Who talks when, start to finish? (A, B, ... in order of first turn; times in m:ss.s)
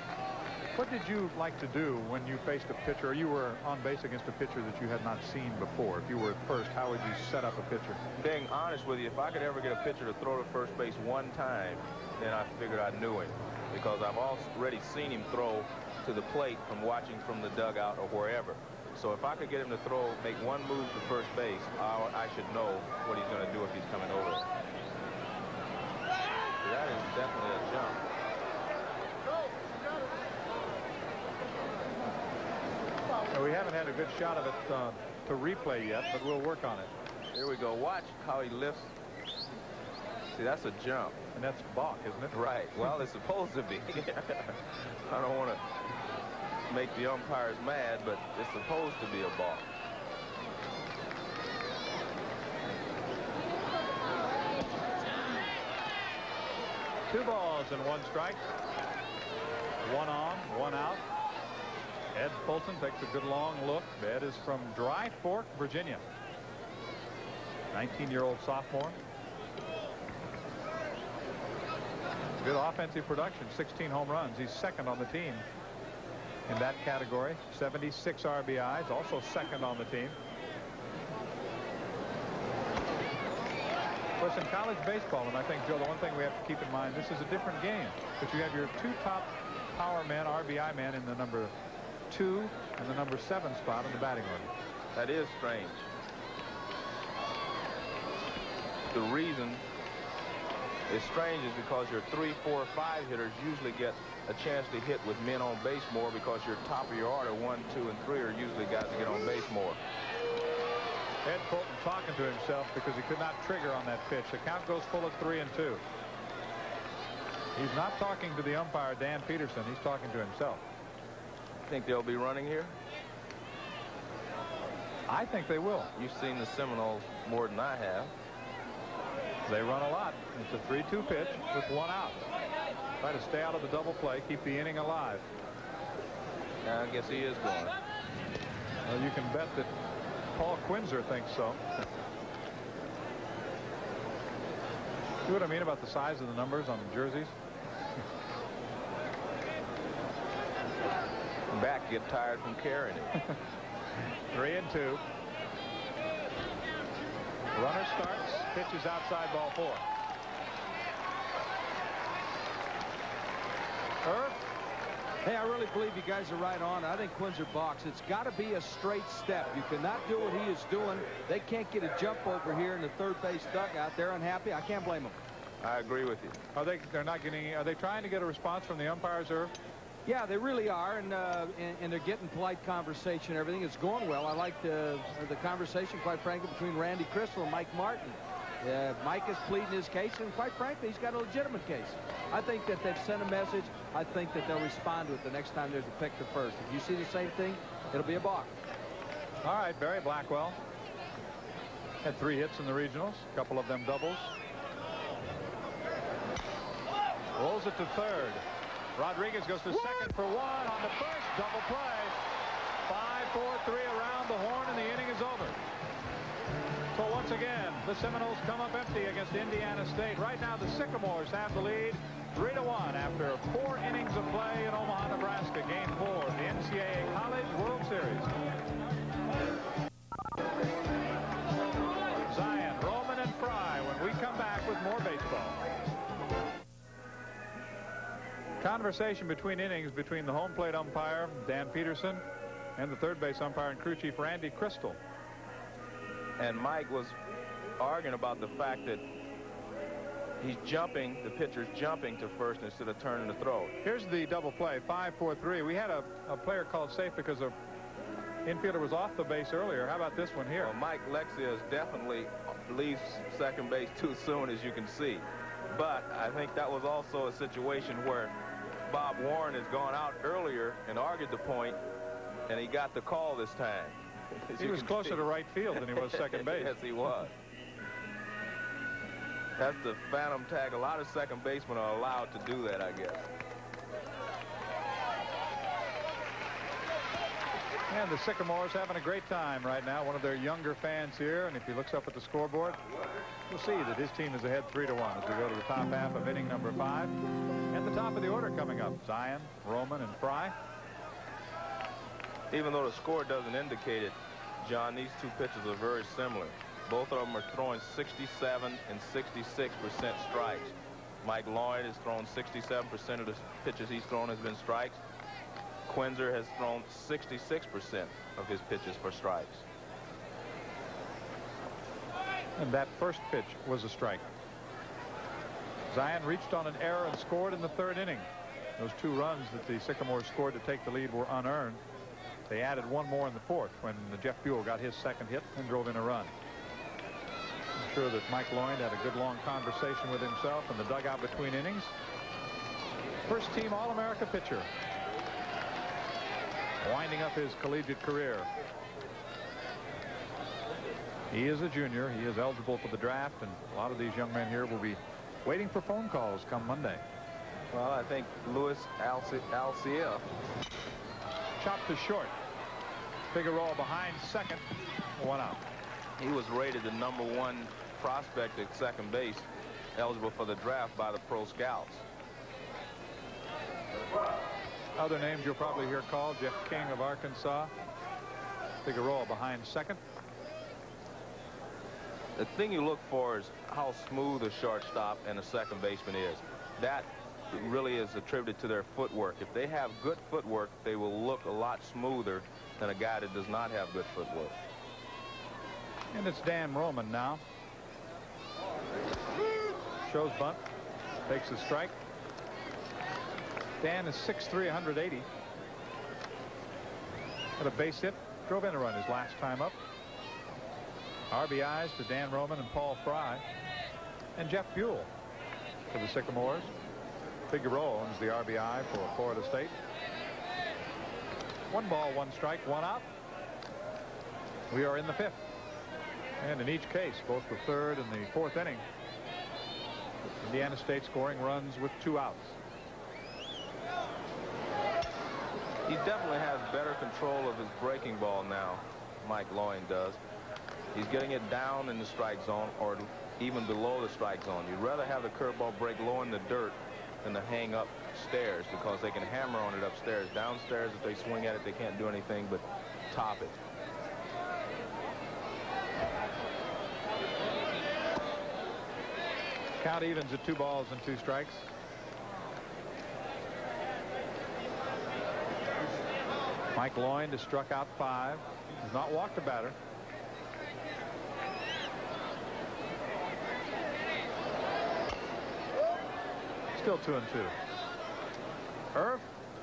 0:00.7-0:08.0 A
0:08.2-0:24.5 B
0:26.6-0:28.0 B
0:33.3-0:36.9 A
0:37.3-0:38.9 B
0:40.3-0:41.2 B
0:41.3-0:42.4 A
0:42.3-0:45.7 B
0:46.7-0:49.7 B
0:57.1-0:58.4 A
0:59.8-1:01.0 A
1:02.1-1:06.0 A
1:07.7-1:09.0 A
1:12.4-1:15.4 A
1:16.5-1:20.2 A
1:24.2-1:31.5 A
1:32.1-1:34.5 A
1:34.9-1:35.9 B
1:38.9-1:39.6 B
1:40.9-1:49.8 B
1:51.2-1:55.8 A
1:57.6-2:00.6 A
2:01.7-2:02.8 B
2:05.1-2:05.9 A
2:05.9-2:08.1 B
2:09.5-2:12.2 A
2:13.0-2:15.2 A
2:16.6-2:17.8 B
2:18.8-2:19.7 A
2:20.3-2:21.6 A
2:25.2-2:27.3 A
2:31.5-2:33.2 B
2:34.3-2:35.0 A
2:37.5-2:39.8 A
2:44.0-2:44.4 A
2:45.2-2:55.2 C
2:55.6-2:56.4 B
2:56.5-2:59.5 A
3:00.0-3:18.5 C
3:19.4-3:20.6 A
3:22.0-3:24.3 A
3:27.4-3:28.4 A
3:29.0-3:32.2 A
3:32.9-3:35.6 A
3:36.9-3:48.3 A
3:52.2-3:55.6 A
3:58.6-4:02.2 A
4:02.8-4:05.0 A
4:06.4-4:07.2 B
4:07.8-4:09.0 B
4:10.4-4:13.7 B
4:13.8-4:17.5 A
4:18.4-4:20.7 A
4:20.6-4:28.3 B
4:28.9-4:31.8 B
4:32.5-4:37.3 B
4:34.6-4:36.8 A
4:39.6-4:43.3 B
4:47.9-4:52.8 A
4:53.5-4:57.1 A
4:57.7-5:00.5 A
5:02.5-5:15.0 B
5:15.9-5:19.6 B
5:22.6-5:24.3 A
5:25.9-5:31.8 A
5:32.5-5:36.3 A
5:37.8-5:41.9 A
5:43.3-5:44.7 A
5:46.8-5:48.5 A
5:51.3-5:57.0 A
5:57.7-6:00.2 B
6:01.6-6:02.3 A
6:03.3-6:05.6 A
6:06.2-6:12.0 B
6:15.0-6:17.7 A
6:18.8-6:20.0 A
6:22.4-6:34.6 B
6:36.1-6:37.4 A
6:40.0-6:40.6 A
6:41.3-6:42.0 A
6:43.8-6:45.3 A
6:47.6-6:49.7 A
6:51.3-6:53.4 A
6:54.4-6:55.1 A
6:55.9-6:56.7 A
6:57.5-6:59.7 A
7:01.7-7:03.0 A
7:04.7-7:05.4 A
7:06.4-7:08.8 A
7:10.4-7:12.6 A
7:15.8-7:20.2 B
7:20.9-7:33.6 B
7:39.8-7:41.7 A
7:46.7-7:49.7 A
7:56.7-7:57.5 A
7:58.9-7:59.2 A